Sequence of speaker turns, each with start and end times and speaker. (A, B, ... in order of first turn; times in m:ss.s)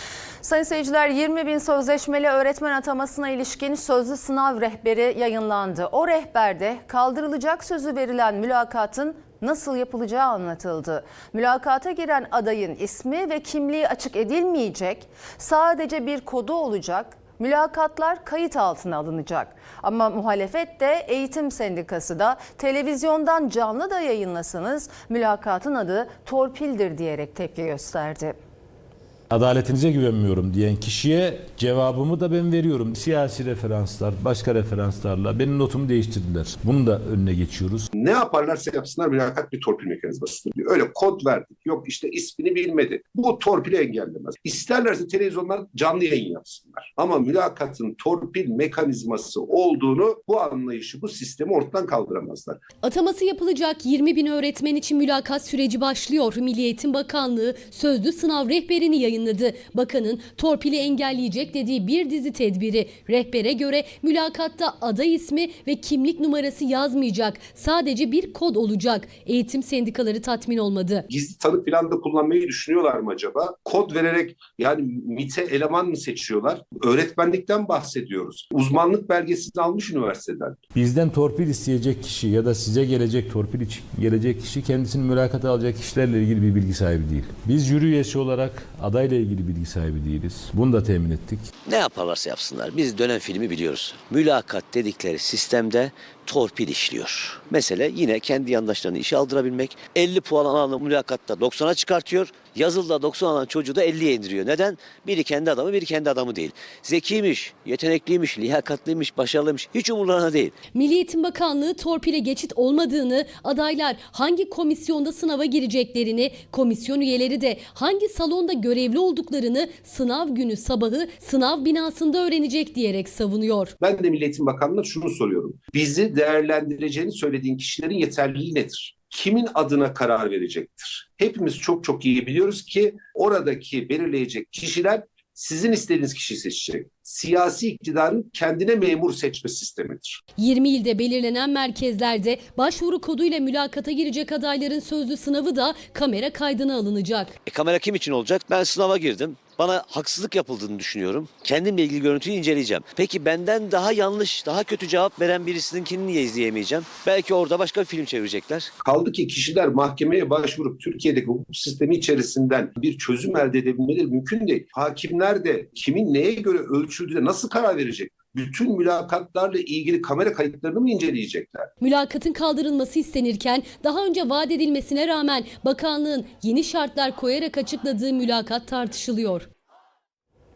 0:00.4-0:28.4 A
0:29.3-0:37.9 B
0:37.9-0:52.6 C
0:52.8-1:11.1 D
1:11.1-1:20.6 C
1:20.8-1:31.5 B
1:31.6-1:50.5 E
1:50.7-2:03.7 D
2:03.8-2:20.2 C
2:20.4-2:27.4 D
2:27.5-2:38.7 E
2:38.8-2:51.7 C
2:51.8-2:59.5 D